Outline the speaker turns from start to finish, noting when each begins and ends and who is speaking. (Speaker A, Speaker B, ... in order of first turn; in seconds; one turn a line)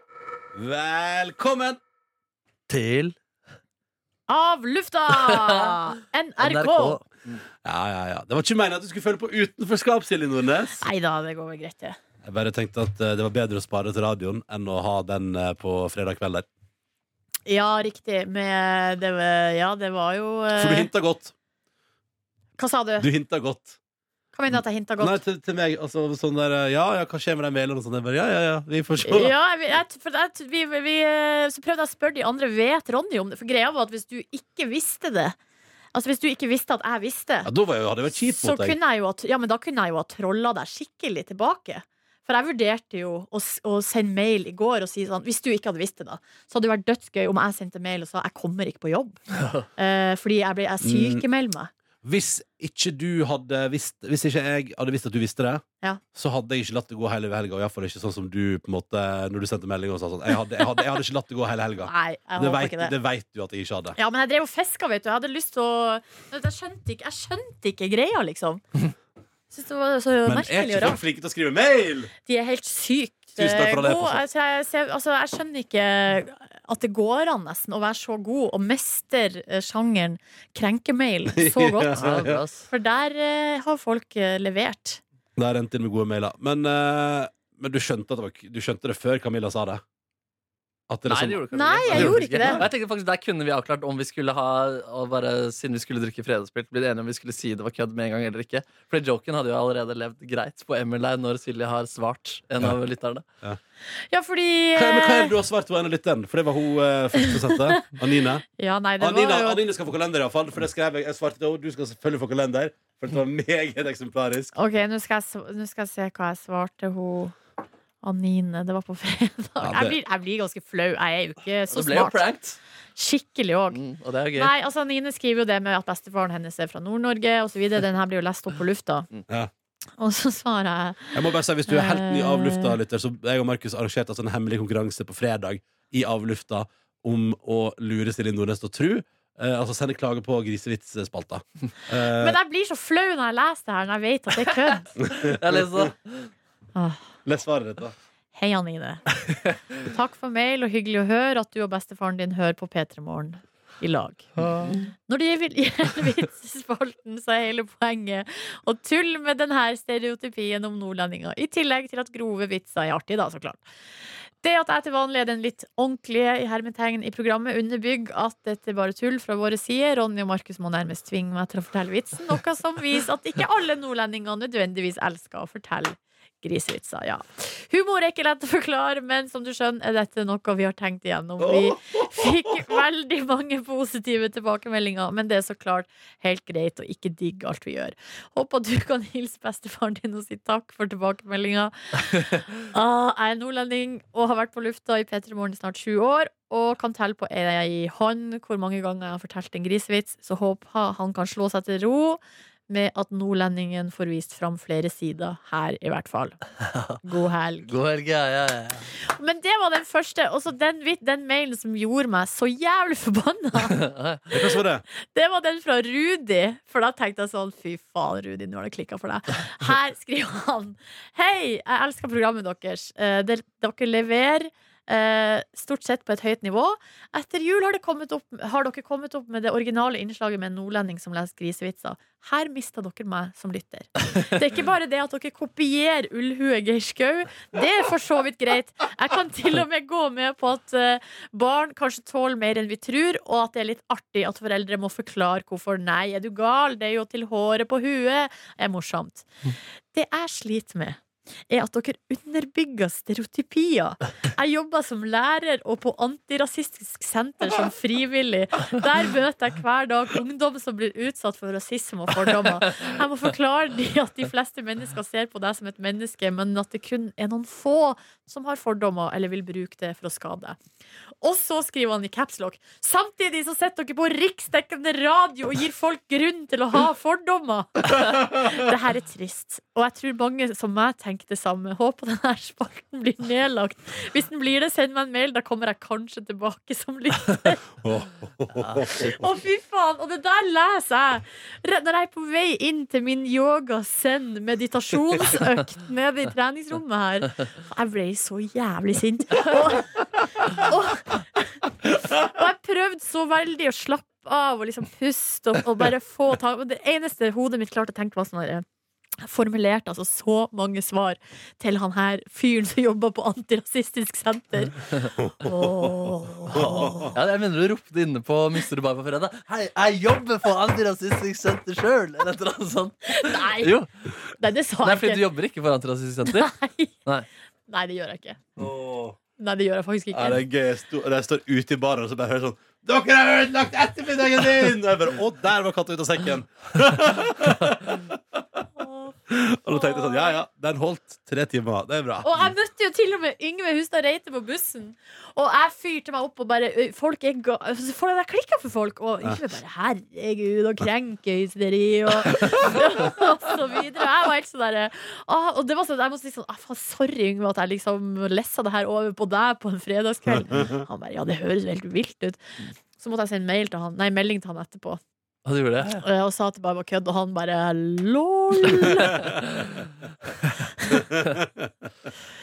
Speaker A: 0.6-1.8
Speaker B: 2.7-3.2
Speaker C: 4.3-7.0
Speaker B: 5.2-5.8
Speaker B: 6.4-7.4
Speaker A: 7.6-10.8
Speaker C: 10.8-12.0
Speaker A: 12.2-16.5
Speaker C: 17.5-20.9
Speaker A: 20.6-21.3
Speaker C: 22.6-23.1
Speaker A: 23.0-23.8
Speaker C: 24.3-25.2
Speaker A: 25.0-29.3
Speaker C: 29.0-35.4
Speaker C: 35.9-37.5
Speaker A: 37.5-38.8
Speaker C: 38.1-49.2
Speaker B: 49.4-49.7
Speaker C: 49.8-51.7
Speaker A: 50.8-51.2
Speaker A: 52.0-55.6
Speaker A: 56.1-64.0
Speaker C: 61.8-62.9
Speaker C: 64.0-68.6
Speaker C: 69.5-71.0
Speaker A: 70.3-72.1
Speaker C: 72.3-85.0
Speaker A: 73.4-74.2
Speaker A: 81.3-82.4
Speaker B: 82.0-82.7
Speaker A: 85.4-89.8
Speaker A: 90.9-92.7
Speaker B: 91.0-103.2
Speaker C: 91.5-92.6
Speaker C: 104.1-105.3
Speaker A: 104.8-108.5
Speaker C: 107.2-107.9
Speaker C: 108.6-109.6
Speaker A: 109.0-114.5
Speaker C: 114.5-117.4
Speaker C: 118.0-122.2
Speaker A: 119.6-120.0
Speaker B: 121.7-122.6
Speaker C: 123.0-123.8
Speaker B: 123.7-124.5
Speaker C: 124.4-129.1
Speaker C: 130.0-132.8
Speaker A: 131.1-142.4
Speaker C: 142.1-144.9
Speaker A: 145.0-145.9
Speaker B: 145.1-146.3
Speaker C: 146.8-147.1
Speaker A: 147.3-147.9
Speaker C: 148.3-149.1
Speaker C: 149.8-154.3
Speaker A: 154.4-154.8
Speaker C: 155.1-163.6
Speaker C: 164.4-206.4
Speaker A: 181.4-182.7
Speaker C: 207.0-207.8
Speaker B: 207.7-208.9
Speaker C: 208.9-213.8
Speaker B: 213.7-214.3
Speaker A: 214.3-214.8
Speaker C: 215.0-249.3
Speaker C: 249.9-270.6
Speaker C: 271.2-287.6
Speaker A: 287.8-289.1
Speaker B: 288.8-289.2
Speaker C: 289.1-308.6
Speaker C: 309.2-314.9
Speaker A: 315.2-317.1
Speaker C: 315.4-317.1
Speaker B: 317.1-323.9
Speaker C: 323.1-323.7
Speaker C: 324.4-325.2
Speaker B: 324.8-327.3
Speaker C: 326.3-326.9
Speaker C: 327.7-328.4
Speaker A: 328.6-329.2
Speaker C: 329.4-330.4
Speaker A: 330.1-338.6
Speaker C: 338.8-339.1
Speaker A: 339.3-342.5
Speaker C: 339.7-340.4
Speaker C: 342.2-362.4
Speaker C: 363.0-365.0
Speaker B: 365.4-366.0
Speaker C: 365.9-369.4
Speaker A: 370.9-371.9